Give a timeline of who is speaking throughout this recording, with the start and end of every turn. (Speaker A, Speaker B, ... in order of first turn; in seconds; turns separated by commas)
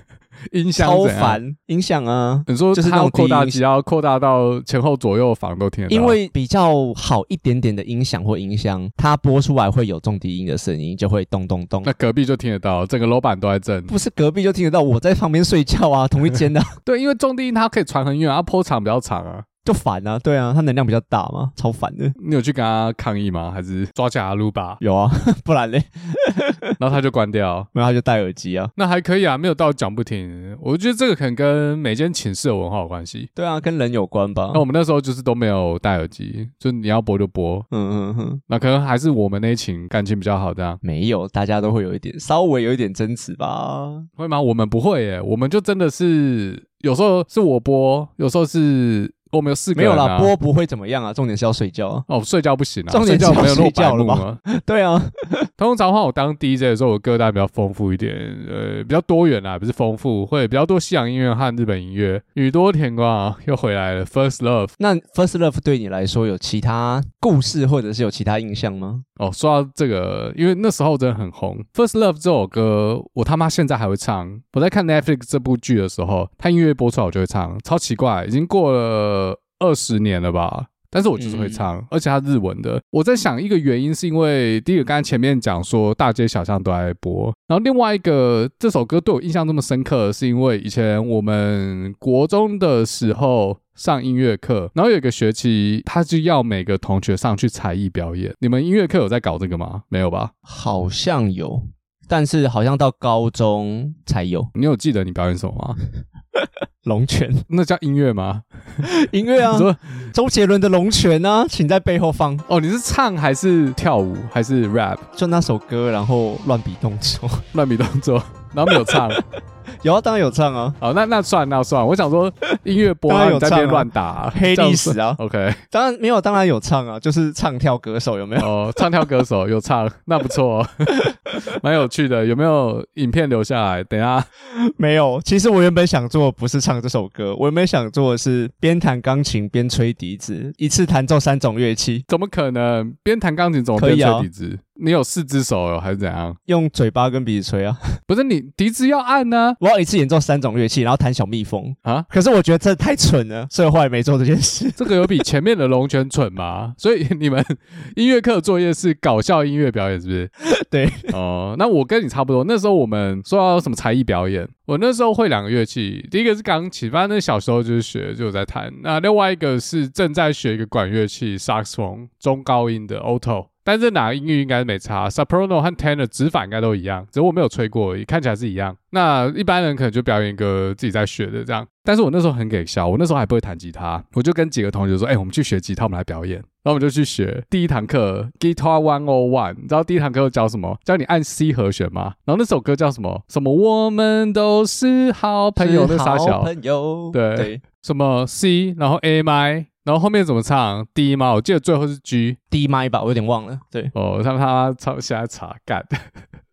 Speaker A: 0.5-1.4, Speaker B: 0.7-3.6, Speaker A: 2.5-6.2, Speaker B: 5.9-11.9, Speaker A: 11.8-13.9, Speaker B: 13.9-16.8, Speaker A: 16.8-19.4, Speaker B: 19.6-22.1, Speaker A: 22.2-24.8, Speaker B: 24.8-26.7, Speaker A: 26.8-27.7, Speaker B: 27.7-28.7, Speaker A: 28.8-33.3, Speaker B: 33.4-34.6, Speaker A: 34.5-37.6, Speaker B: 37.7-38.4, Speaker A: 38.5-40.8, Speaker B: 40.8-44.1, Speaker A: 44.2-50.3, Speaker B: 49.7-52.0, Speaker A: 52.1-54.4, Speaker B: 52.9-55.5, Speaker A: 55.6-64.7, Speaker B: 64.8-69.0, Speaker A: 69.2-100.3, Speaker B: 81.2-81.7, Speaker B: 100.5-104.5, Speaker A: 104.5-105.8, Speaker B: 106.3-107.5, Speaker A: 107.5-108.8, Speaker B: 108.8-112.4, Speaker A: 109.4-110.1, Speaker A: 112.5-115.0, Speaker B: 115.1-117.4, Speaker A: 117.5-119.2, Speaker B: 118.7-119.2, Speaker B: 119.8-120.8, Speaker A: 120.8-125.6, Speaker B: 123.1-125.2, Speaker B: 125.7-129.0, Speaker A: 128.4-134.3, Speaker B: 134.6-142.0, Speaker A: 142.1-146.4, Speaker B: 143.8-144.3, Speaker B: 146.5-147.8, Speaker A: 148.1-149.6, Speaker B: 149.6-155.1, Speaker A: 154.8-160.3, Speaker B: 160.5-161.1, Speaker A: 161.1-196.5, Speaker B: 195.6-197.6, Speaker A: 197.1-202.4, Speaker B: 202.5-203.9, Speaker A: 203.9-206.1